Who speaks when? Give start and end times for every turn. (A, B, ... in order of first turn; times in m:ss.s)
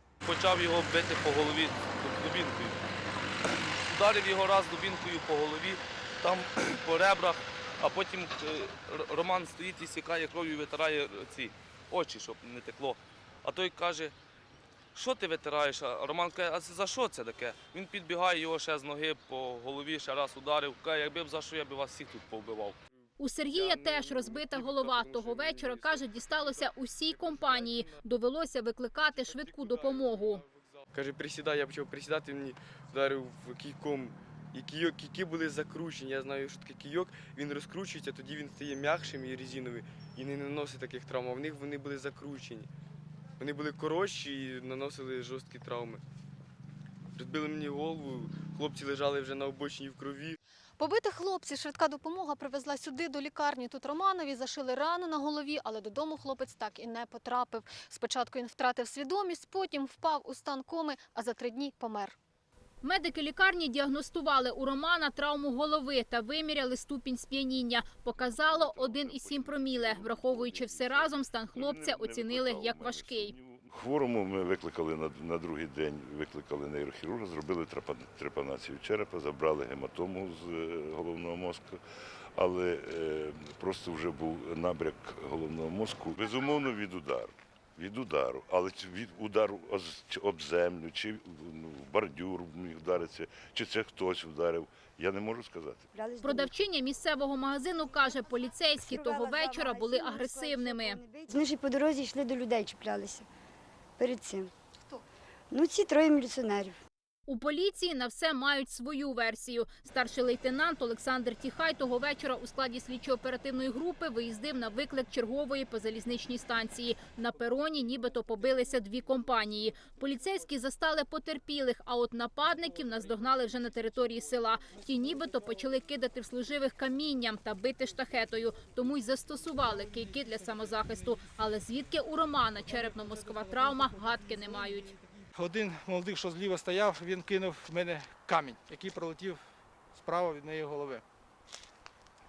0:00.2-0:02.8 A
0:03.9-0:14.2 A
0:14.9-0:22.8 A
0:23.2-0:30.4 B
0:23.6-0:26.7 C
0:27.3-0:28.0 C
0:29.2-0:42.7 C
0:43.4-0:46.0 C
0:47.2-0:50.4 C
0:50.8-1:02.2 D
1:02.8-1:13.3 B
1:08.1-1:21.8 E
1:22.4-1:35.9 E
1:35.9-1:36.5 F
1:36.2-1:41.0 B
1:38.8-1:43.3 F
1:44.0-1:44.5 F
1:45.5-1:46.8 F
1:47.3-2:15.0 B
2:10.2-2:11.2 G
2:13.4-2:13.7 G
2:15.3-2:19.4 G
2:19.9-2:21.0 G